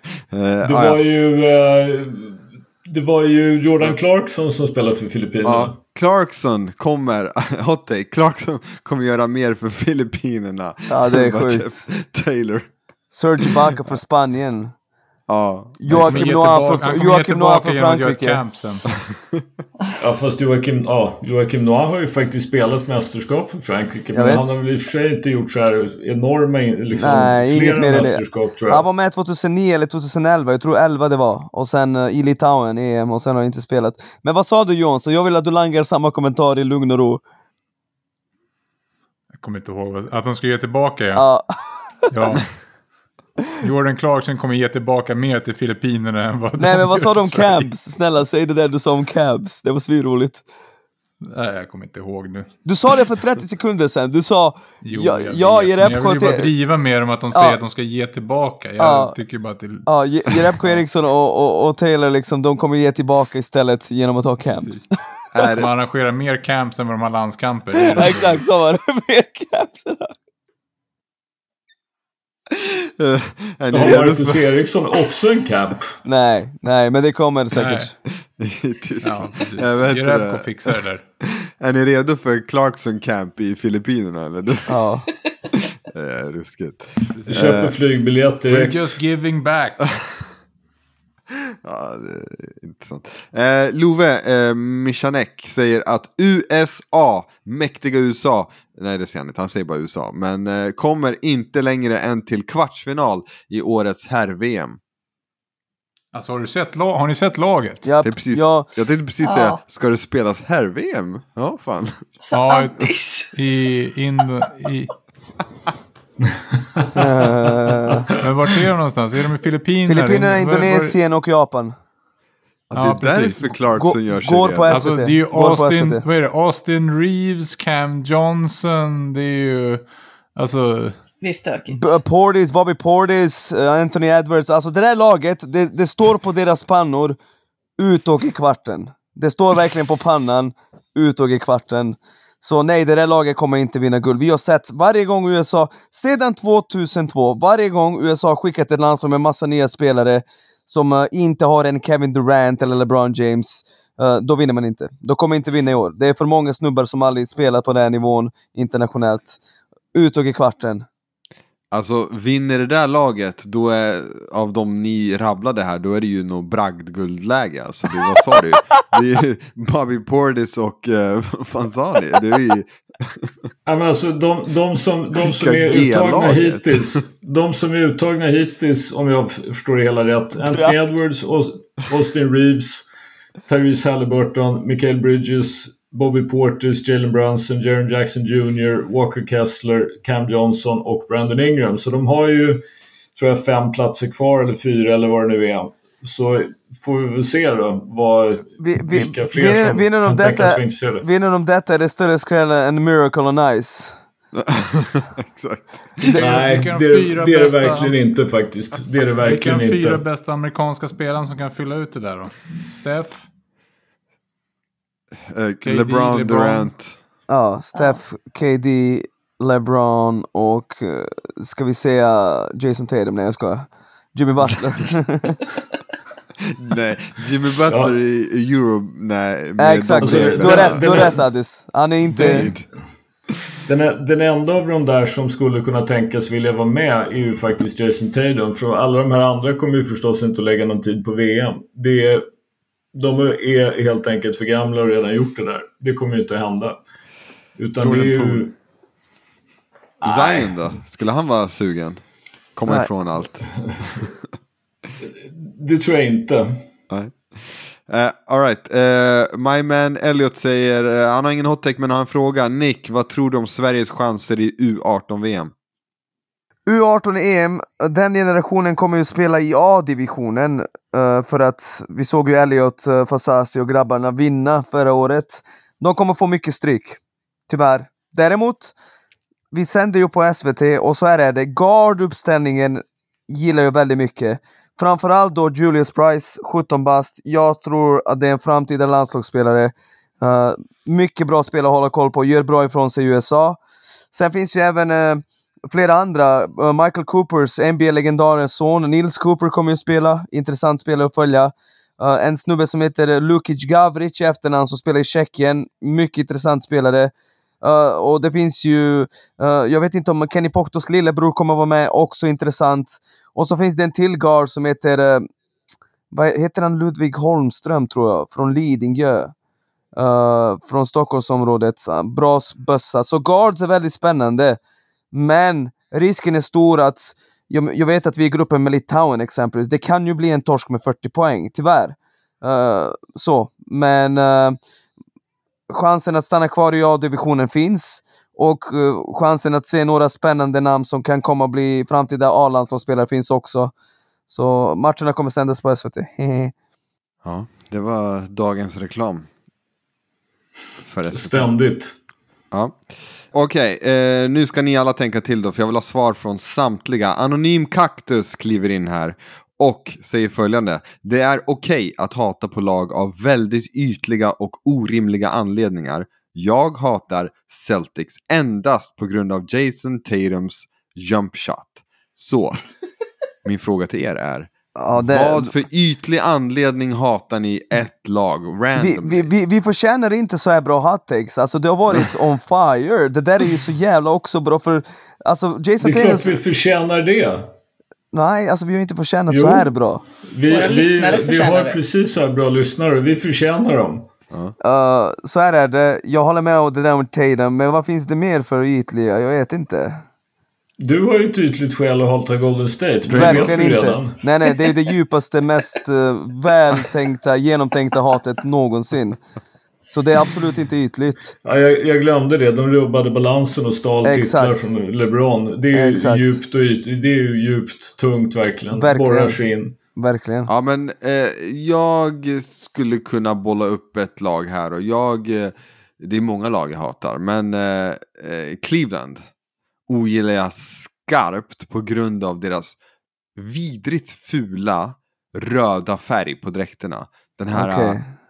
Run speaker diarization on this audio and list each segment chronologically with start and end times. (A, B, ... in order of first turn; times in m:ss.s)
0:00.3-0:01.0 A
0:00.6-0:05.8 B
0:05.4-0:12.7 A
0:10.9-0:11.9 C
0:13.1-0:14.7 C
0:15.3-0:16.3 A
0:15.8-0:18.4 C
0:16.0-0:18.9 D
0:19.1-0:19.4 A
0:20.0-0:28.8 B
0:24.1-0:24.6 C
0:26.9-0:37.2 C
0:39.3-0:41.2 D
0:41.2-0:42.0 C
0:42.1-0:42.5 D
0:43.6-0:47.7 D
0:46.6-0:50.4 C
0:51.2-0:52.5 D
0:52.6-0:56.5 C
0:54.8-1:00.8 D
0:57.3-0:57.6 C
0:58.8-0:59.1 C
0:59.8-1:04.9 C
1:05.3-1:05.7 A
1:05.5-1:08.4 D
1:07.9-1:10.1 C
1:12.5-1:14.4 A
1:13.7-1:15.9 B
1:16.0-1:17.9 C
1:17.5-1:17.9 D
1:18.2-1:20.7 A
1:19.0-1:21.0 D
1:21.4-1:24.7 A
1:24.7-1:25.1 C
1:25.6-1:27.7 A
1:27.2-1:27.7 D
1:27.3-1:29.0 B
1:28.5-1:29.9 D
1:31.6-1:44.8 A
1:46.1-1:47.8 D
1:47.8-1:48.7 C
1:48.0-1:52.0 A
1:49.2-1:49.6 E
1:52.2-1:53.3 E
1:52.3-1:54.9 D
1:56.3-1:57.0 B
1:56.9-1:58.1 C
1:58.1-2:01.0 D
1:59.8-2:01.7 C
2:02.7-2:04.8 A
2:02.7-2:03.5 D
2:03.8-2:06.0 C
2:04.7-2:11.0 D
2:11.2-2:12.0 E
2:11.7-2:17.2 C
2:17.8-2:39.4 C
2:39.9-2:40.8 C
2:41.7-2:53.5 A
2:53.6-3:02.8 B
2:55.2-2:57.0 A
3:03.4-3:12.6 B
3:13.2-3:21.0 B
3:18.6-3:24.0 C
3:24.3-3:26.2 A
3:26.0-3:28.0 D
3:26.1-3:30.0 B
3:29.2-3:33.3 D
3:35.3-3:36.9 A
3:35.6-3:36.7 D
3:37.3-3:45.4 C
3:46.5-3:51.1 A
3:47.7-3:47.9 B
3:49.6-3:52.5 C
3:50.0-3:51.2 B
3:52.1-3:52.6 A
3:52.2-3:52.6 B
3:53.6-4:02.2 B
4:02.9-4:06.8 B
4:07.6-4:08.5 B
4:07.8-4:08.4 D
4:10.0-4:10.6 B
4:10.0-4:12.0 A
4:12.5-4:14.1 A
4:13.7-4:14.0 B
4:15.0-4:16.6 B
4:16.9-4:25.5 A
4:26.7-4:38.7 C
4:39.5-4:53.6 C
4:54.1-5:15.3 C
5:16.1-5:19.3 C
5:19.9-5:24.6 C
5:25.1-5:34.6 C
5:35.7-5:43.7 C
5:44.3-5:46.5 C
5:47.2-5:49.3 A
5:50.8-5:51.5 A
5:51.1-5:52.0 B
5:52.5-6:12.6 A
6:13.4-6:19.3 A
6:14.8-6:15.5 C
6:18.8-6:26.3 C
6:25.8-6:27.5 B
6:28.1-6:30.0 C
6:29.3-6:29.7 B
6:30.2-6:34.0 B
6:30.5-6:31.8 E
6:34.6-6:40.0 C
6:40.8-6:44.2 B
6:43.0-6:43.5 A
6:43.1-6:49.2 C
6:49.9-6:51.4 C
6:51.4-6:59.8 B
6:54.0-6:54.7 C
6:55.7-6:56.4 C
6:58.7-6:59.4 C
6:59.9-7:00.5 C
7:00.5-7:09.2 A
7:09.9-7:12.8 A
7:13.4-7:18.0 A
7:17.5-7:18.1 C